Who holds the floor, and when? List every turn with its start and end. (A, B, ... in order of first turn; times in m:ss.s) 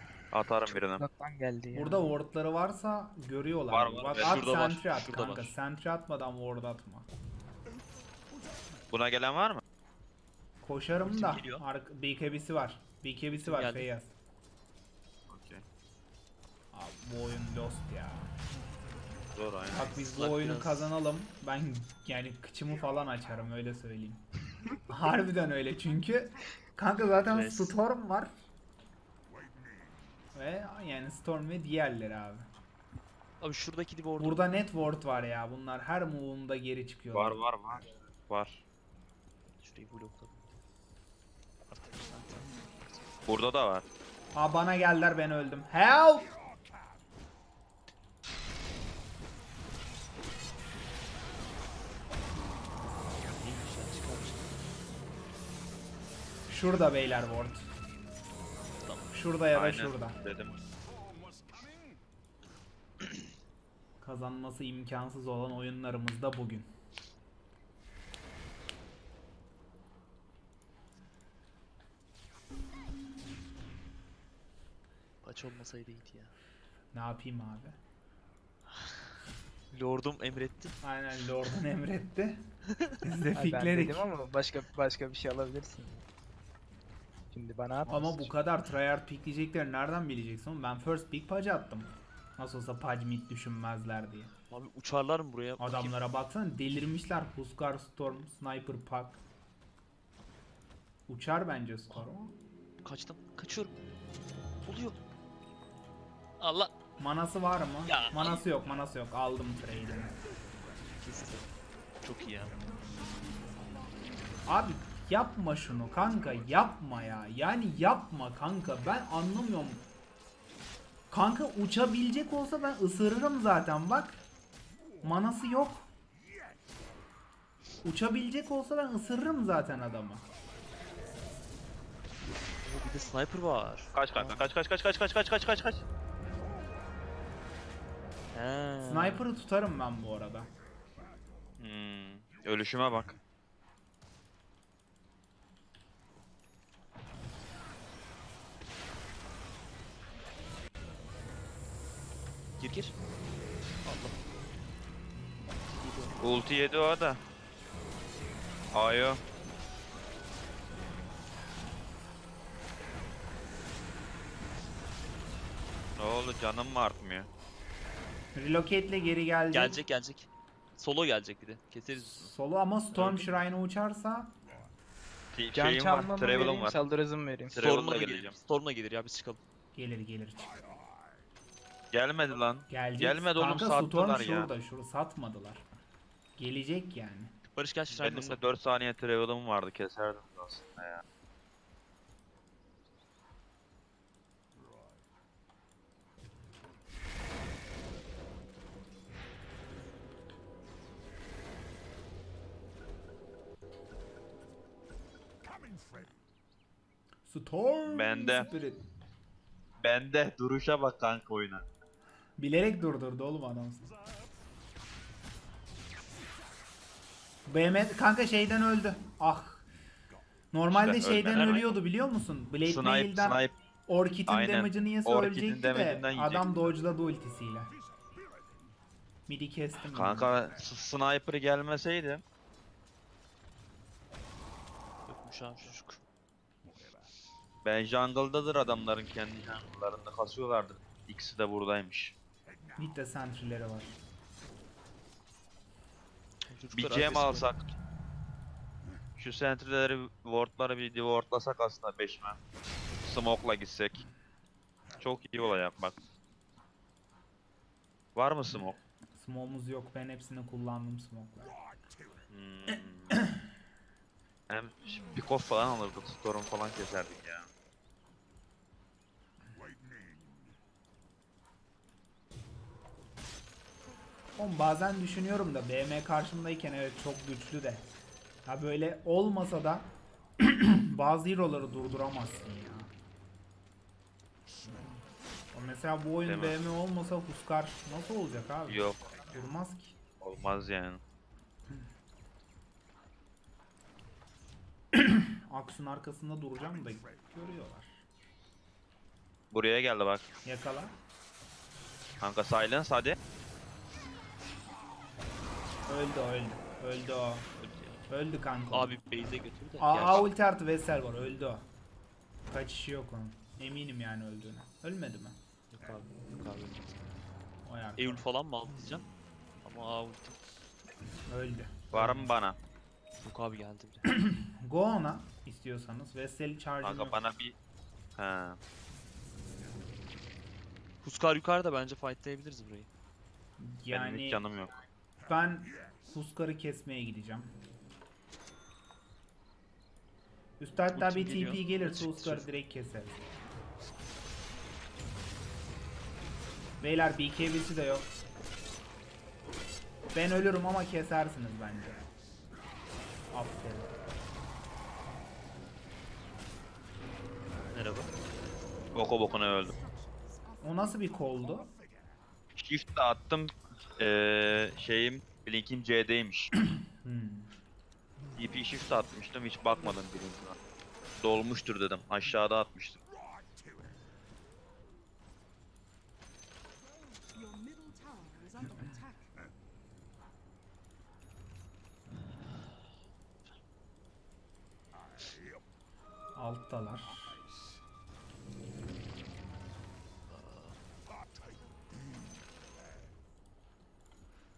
0:00.3-0:01.0 A
0:00.7-0:02.1 B
0:01.7-0:07.1 C
0:03.7-0:04.6 A
0:04.2-0:05.5 D
0:08.9-0:09.6 A
0:10.6-0:14.1 C
0:11.0-0:11.6 D
0:13.4-0:13.9 D
0:15.3-0:15.6 A
0:16.7-0:18.3 C
0:19.3-0:19.9 A
0:19.7-0:28.4 C
0:19.9-0:20.9 D
0:27.2-0:27.8 D
0:30.3-0:32.5 C
0:33.4-0:34.5 D
0:34.2-0:37.4 C
0:37.1-0:38.6 A
0:39.6-0:40.5 D
0:41.7-0:43.1 D
0:43.3-0:43.8 A
0:44.3-0:46.4 C
0:53.2-0:54.5 D
0:56.5-0:57.7 C
0:58.8-0:59.1 D
0:59.1-1:00.2 C
0:59.5-1:00.5 A
1:04.0-1:06.7 C
1:15.2-1:16.3 D
1:16.9-1:17.8 C
1:18.7-1:19.1 D
1:19.7-1:20.8 D
1:20.8-1:22.4 C
1:23.0-1:24.0 C
1:23.3-1:26.0 B
1:27.3-1:28.3 B
1:27.9-1:34.3 C
1:34.5-1:36.0 D
1:35.6-1:39.2 C
1:41.1-1:42.3 C
1:42.8-1:43.7 D
1:44.6-1:45.0 D
1:46.4-1:46.7 D
1:47.0-1:50.2 C
1:47.8-1:48.4 D
1:51.0-1:51.5 D
1:52.0-1:52.6 D
1:54.4-1:59.8 C
2:01.1-2:04.2 C
2:05.0-2:05.9 C
2:07.8-2:10.2 C
2:12.6-2:14.4 D
2:13.9-2:15.8 A
2:18.3-2:19.2 D
2:18.8-2:20.5 C
2:21.6-2:23.2 A
2:32.6-2:33.0 D
2:33.8-2:34.2 D
2:35.6-2:36.3 D
2:36.2-2:37.2 A
2:38.7-2:39.2 A
2:46.0-2:47.3 A
2:48.3-2:49.8 C
2:49.5-2:52.3 D
2:51.9-2:54.4 C
2:55.3-2:56.8 A
2:55.5-2:57.6 B
2:57.5-2:58.3 A
2:57.6-2:59.4 D
2:59.7-3:00.6 C
3:01.9-3:04.5 A
3:02.7-3:05.8 C
3:06.4-3:07.4 C
3:07.5-3:08.4 D
3:07.9-3:11.0 A
3:27.2-3:28.8 C
3:27.9-3:28.5 A
3:29.8-3:31.6 A
3:32.4-3:33.9 C
3:37.5-3:39.6 C
3:40.5-3:47.7 C
3:40.7-3:41.8 A
3:42.6-3:43.5 A
3:44.3-3:46.6 A
3:49.3-3:50.4 C
3:49.9-3:52.2 A
3:55.1-3:56.0 D
3:57.6-4:02.1 A
4:02.8-4:04.0 C
4:06.4-4:07.8 D
4:06.7-4:07.6 A
4:09.2-4:12.4 A
4:13.0-4:14.1 A
4:15.0-4:15.9 A
4:18.1-4:18.8 A
4:19.1-4:21.5 C
4:22.3-4:23.2 A
4:24.5-4:27.5 A
4:34.4-4:37.8 C
4:38.4-4:42.9 C
4:45.5-4:50.0 C
4:46.2-4:46.6 A
4:48.6-4:49.0 A
4:50.2-4:51.0 A
4:54.9-4:58.0 C
4:59.5-5:00.2 A
5:00.4-5:01.0 C
5:02.2-5:03.2 A
5:05.9-5:07.5 C
5:07.6-5:08.0 D
5:08.1-5:11.6 C
5:08.7-5:10.3 D
5:12.5-5:15.4 C
5:15.7-5:17.0 D
5:17.6-5:18.2 C
5:18.0-5:19.1 D
5:19.6-5:20.4 D
5:21.2-5:22.3 C
5:21.9-5:22.6 A
5:23.2-5:24.1 D
5:24.0-5:27.2 C
5:26.8-5:27.5 A
5:28.2-5:28.6 A
5:31.0-5:32.9 D
5:33.6-5:34.4 C
5:33.9-5:34.7 A
5:35.2-5:37.5 C
5:40.6-5:43.2 C
5:40.9-5:42.5 D
5:46.8-5:48.1 C
5:50.1-5:52.1 C
5:53.3-5:53.9 C
5:57.7-5:58.1 D
5:58.9-5:59.8 A
6:00.6-6:01.7 C
6:02.6-6:06.5 A
6:06.7-6:07.5 C
6:08.4-6:10.6 A
6:11.2-6:13.0 A
6:26.3-6:27.4 C
6:30.3-6:30.8 D